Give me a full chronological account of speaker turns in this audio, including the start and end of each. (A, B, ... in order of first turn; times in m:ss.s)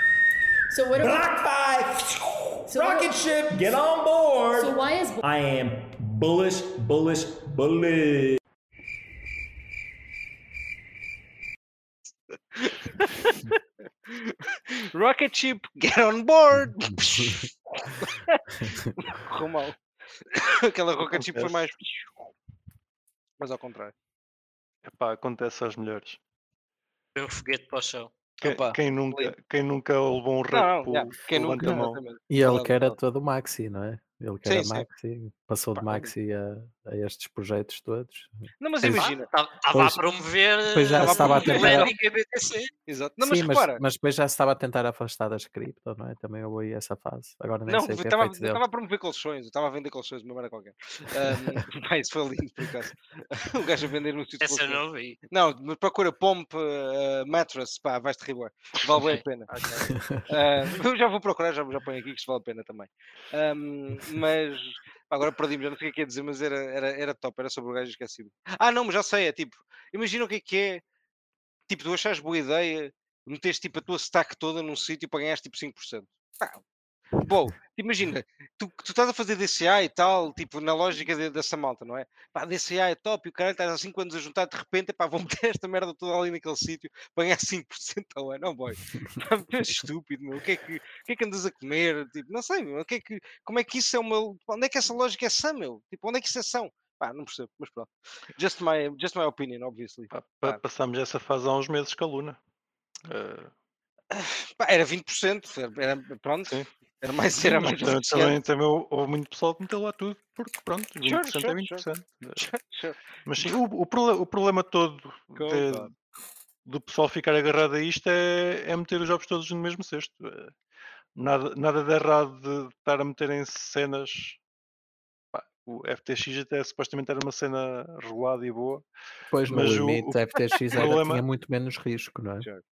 0:00.7-0:01.4 A
0:01.0-0:08.4 B
0:02.7-0:03.3 A
0:04.5-0:05.2 A
0:12.6-0:13.4 C
0:14.1-0:14.4 C
0:14.9-0:18.4 C
0:16.8-0:17.5 D
0:19.0-0:19.8 C
0:20.3-0:21.8 C
0:21.0-0:21.9 E
0:23.4-0:23.9 C
0:24.8-0:26.2 E
0:27.2-0:28.1 F
0:28.4-0:32.0 E
0:28.4-0:29.3 C
0:30.5-0:33.0 C
0:31.6-0:39.0 D
0:34.4-0:34.9 C
0:35.8-0:36.1 C
0:38.6-0:39.3 C
0:38.9-0:42.7 F
0:39.7-0:40.0 D
0:40.7-0:41.9 D
0:41.0-0:41.9 C
0:42.9-0:43.8 C
0:43.2-0:48.6 D
0:47.7-0:59.5 C
0:54.4-0:55.2 F
0:59.0-0:59.9 F
0:59.9-1:00.2 D
1:00.3-1:10.8 C
1:11.7-1:16.6 C
1:17.2-1:40.6 C
1:40.1-1:42.4 E
1:43.1-1:43.5 E
1:44.1-1:48.4 C
1:47.4-1:52.5 E
1:51.0-1:51.8 C
1:52.4-1:53.5 C
1:53.2-1:55.9 E
1:55.4-1:55.9 C
1:56.7-2:00.5 E
2:01.2-2:04.4 E
2:05.3-2:08.8 E
2:09.3-2:12.5 D
2:09.5-2:10.2 E
2:10.7-2:11.2 E